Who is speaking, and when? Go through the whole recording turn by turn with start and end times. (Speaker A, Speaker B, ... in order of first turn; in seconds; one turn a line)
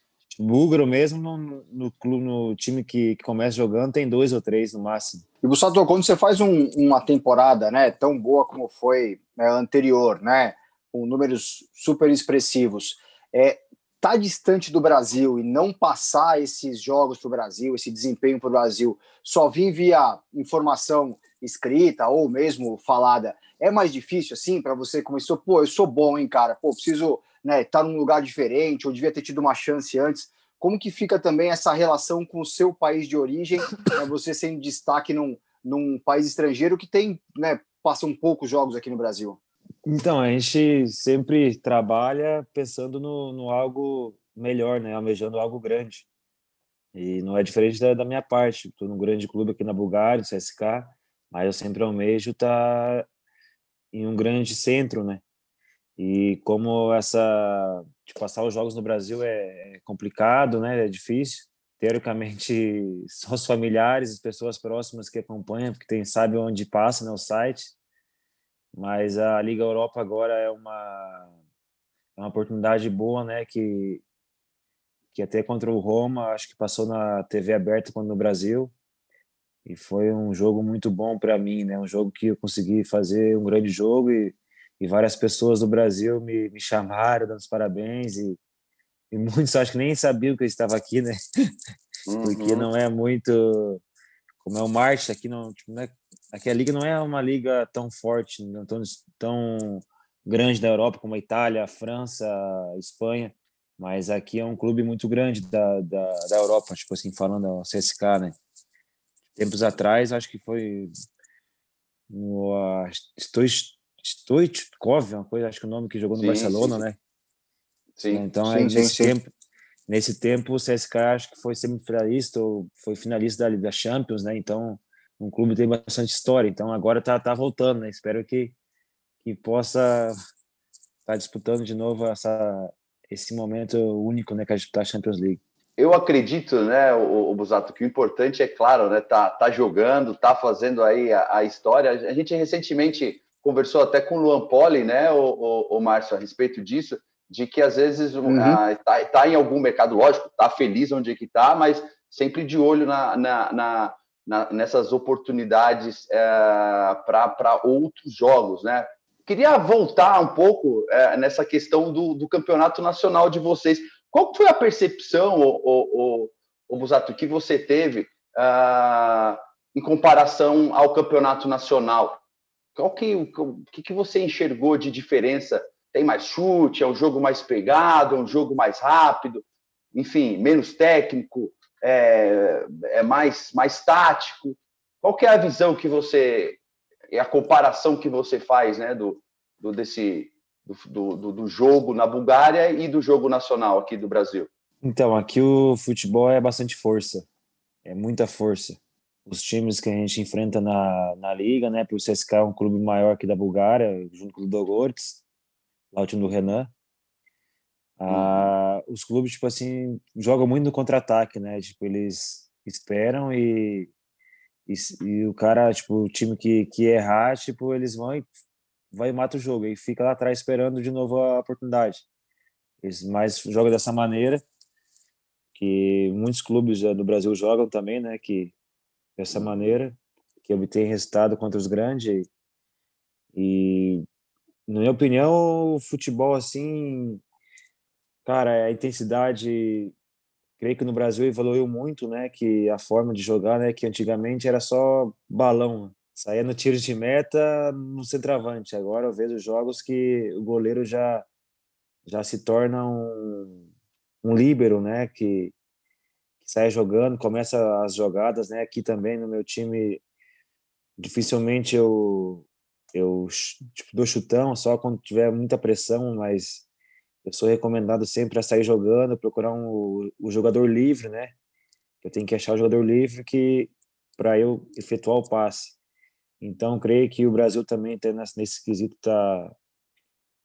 Speaker A: 0.3-5.2
Speaker B: 5.4-39.4
Speaker A: 39.8-46.0
Speaker A: 46.9-53.0
Speaker A: 53.9-55.2
Speaker A: 56.0-67.7
Speaker A: 68.7-71.3
Speaker A: 72.2-74.0
Speaker A: 75.1-78.7
Speaker A: 79.6-88.4
Speaker A: 89.1-91.2
Speaker C: 92.1-92.7
Speaker A: 92.2-93.8
Speaker A: 94.4-108.3
Speaker A: 109.3-110.9
Speaker A: 112.1-117.0
Speaker C: 116.2-116.8
Speaker C: 118.0-118.2
Speaker A: 118.1-119.3
Speaker B: 118.5-119.1
Speaker A: 119.9-128.5
Speaker A: 129.2-130.1
Speaker A: 131.1-135.4
Speaker C: 135.8-172.2
Speaker B: 148.2-148.6
Speaker C: 172.8-186.6
Speaker C: 187.1-194.5
Speaker A: 194.8-197.2
Speaker A: 197.8-205.2
Speaker A: 205.9-206.7
Speaker A: 208.0-213.9
Speaker C: 208.1-208.5
Speaker A: 214.7-218.3
Speaker A: 218.9-222.0
Speaker A: 222.8-224.4
Speaker A: 225.5-228.5
Speaker A: 229.2-232.3
Speaker C: 229.3-229.7
Speaker A: 233.3-234.0
Speaker A: 234.7-237.2
Speaker A: 238.2-239.9
Speaker A: 240.6-251.2
Speaker A: 252.0-253.6
Speaker A: 254.2-255.5
Speaker A: 256.4-260.0
Speaker A: 261.0-266.6
Speaker A: 267.2-271.3
Speaker A: 272.0-275.8
Speaker A: 276.4-279.5